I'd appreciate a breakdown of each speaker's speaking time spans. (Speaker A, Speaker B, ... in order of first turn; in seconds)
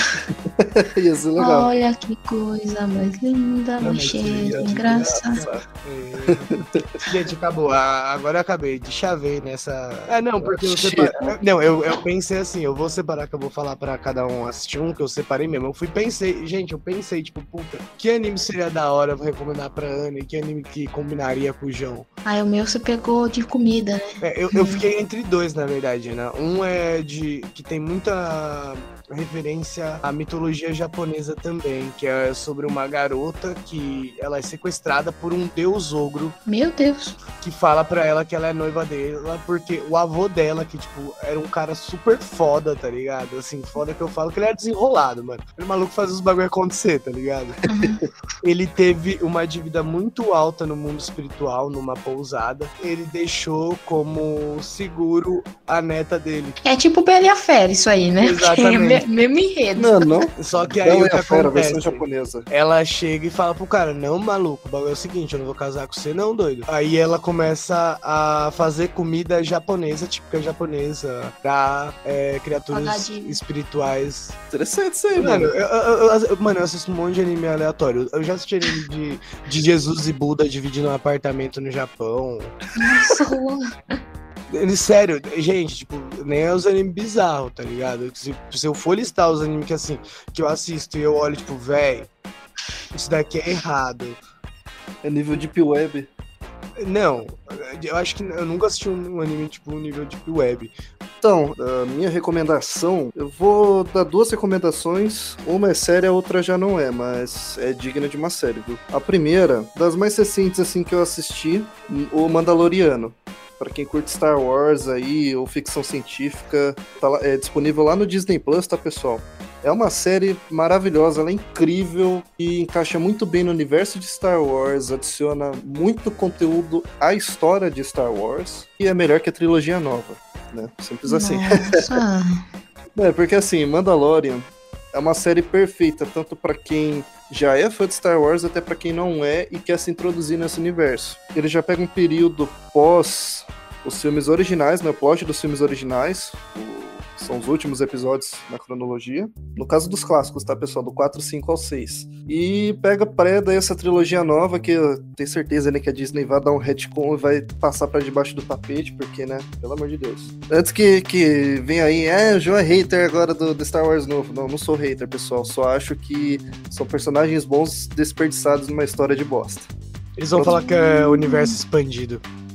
Speaker A: 0.5-1.7, 4.6-5.6, 6.2-6.8, 10.4-11.3, 59.8-62.5, 74.5-75.5, 95.0-96.1, 101.2-131.8, 132.9-169.7, 170.3-170.6
Speaker B: 1.4-5.4, 22.2-24.8, 36.5-37.2, 47.7-48.0, 56.6-60.1, 72.7-73.4, 82.7-84.0, 131.1-132.4, 170.7-171.6
Speaker C: 3.8-22.1, 24.2-36.4, 37.4-47.6, 48.4-56.6, 58.2-59.0, 60.4-74.4, 75.1-82.6, 84.5-92.1, 92.9-94.2, 96.8-100.7, 170.2-172.2